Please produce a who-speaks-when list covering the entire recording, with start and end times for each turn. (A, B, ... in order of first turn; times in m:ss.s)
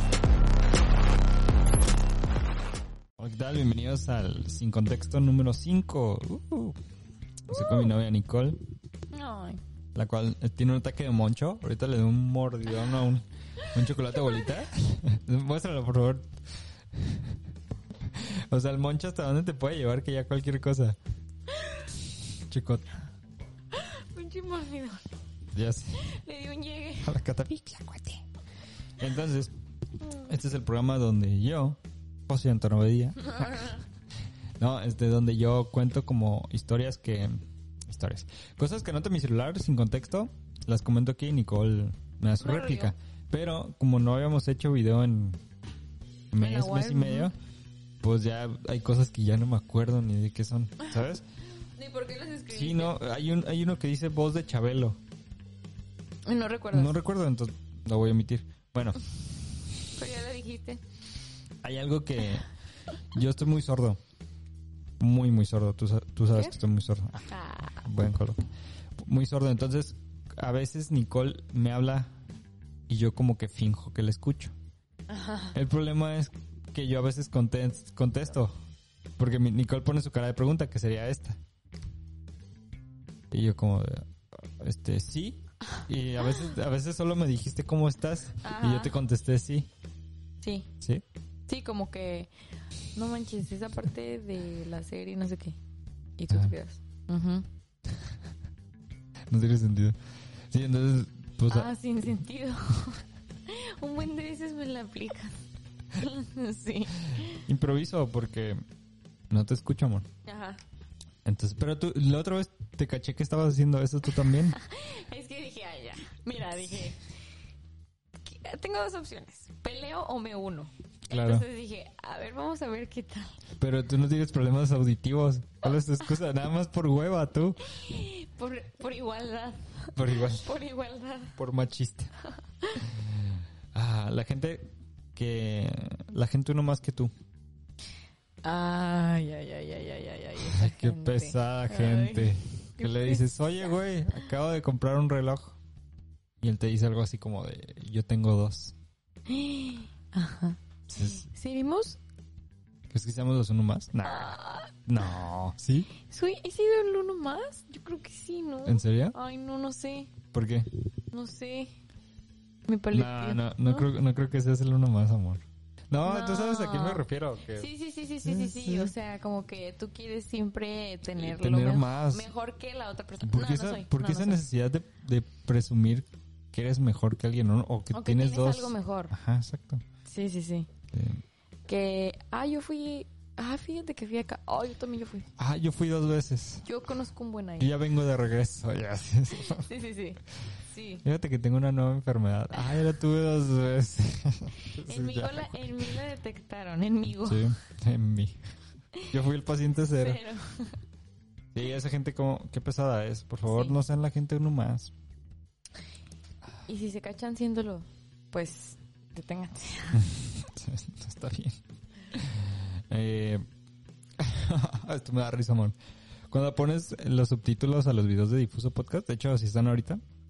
0:03.2-0:06.8 A
0:07.5-0:08.6 A
0:09.1-0:09.6 B
0:09.9-0:16.3 A
0:16.9-0:17.4 A
0:18.1-0:21.0 A
0:22.3-0:22.9 A
0:23.7-0:25.1 B
0:25.5-0:26.1 A
0:26.0-0:27.2 B
0:27.0-0:28.2 A
0:29.0-0:29.5 A
0:30.2-0:33.6 A
0:33.3-0:33.7 B
0:34.6-0:45.4 A
0:42.4-0:42.9 B
0:46.3-0:47.3 A
0:46.4-0:47.3 B
0:48.0-0:51.2 A
0:51.8-0:53.0 B
0:52.5-0:55.0 A
0:56.2-0:56.9 B
0:56.7-0:59.0 A
0:59.9-1:00.8 B
1:01.6-1:02.5 A
1:03.1-1:04.0 A
1:05.0-1:08.4 A
1:07.3-1:07.8 B
1:09.0-1:12.1 A
1:12.9-1:14.5 A
1:15.1-1:15.5 B
1:15.5-1:18.5 A
1:19.2-1:21.4 A
1:23.3-1:29.7 A
1:28.4-1:28.9 B
1:30.4-1:30.7 B
1:31.5-1:32.3 B
1:32.9-1:35.6 B
1:36.2-1:37.5 B
1:39.3-1:40.0 A
1:40.5-1:41.7 A
1:41.5-1:45.4 B
1:45.9-1:47.4 B
1:47.3-1:48.6 A
1:49.3-1:50.1 A
1:50.2-1:50.6 B
1:51.2-1:54.6 A
1:54.6-1:57.0 B
1:58.2-2:03.4 B
2:01.1-2:01.5 A
2:03.6-2:07.6 A
2:07.6-2:11.4 B
2:10.0-2:10.5 A
2:11.3-2:12.1 A
2:12.8-2:17.1 A
2:18.4-2:23.4 B
2:20.4-2:25.6 A
2:26.4-2:28.7 A
2:29.3-2:32.0 B
2:30.9-2:31.3 A
2:32.9-2:35.9 A
2:34.0-2:34.7 B
2:36.0-2:40.1 B
2:38.6-2:39.2 A
2:40.3-2:40.7 A
2:41.1-2:41.7 B
2:42.7-2:43.9 B
2:42.9-2:47.7 A
2:46.0-2:54.4 B
2:48.2-2:48.9 A
2:51.1-2:52.3 A
2:53.2-2:59.8 A
2:57.9-2:59.1 B
3:00.0-3:00.7 B
3:00.9-3:01.2 A
3:01.7-3:05.3 B
3:05.4-3:06.6 A
3:06.6-3:07.7 B
3:07.6-3:09.7 A
3:09.4-3:11.0 B
3:11.0-3:15.9 A
3:14.8-3:17.5 B
3:17.1-3:18.4 A
3:19.1-3:20.2 A
3:20.0-3:20.8 B
3:21.5-3:24.9 A
3:23.5-3:23.8 B
3:26.7-3:30.1 B
3:29.9-3:31.6 A
3:32.1-3:33.4 A
3:34.2-3:35.8 A
3:36.3-3:40.0 A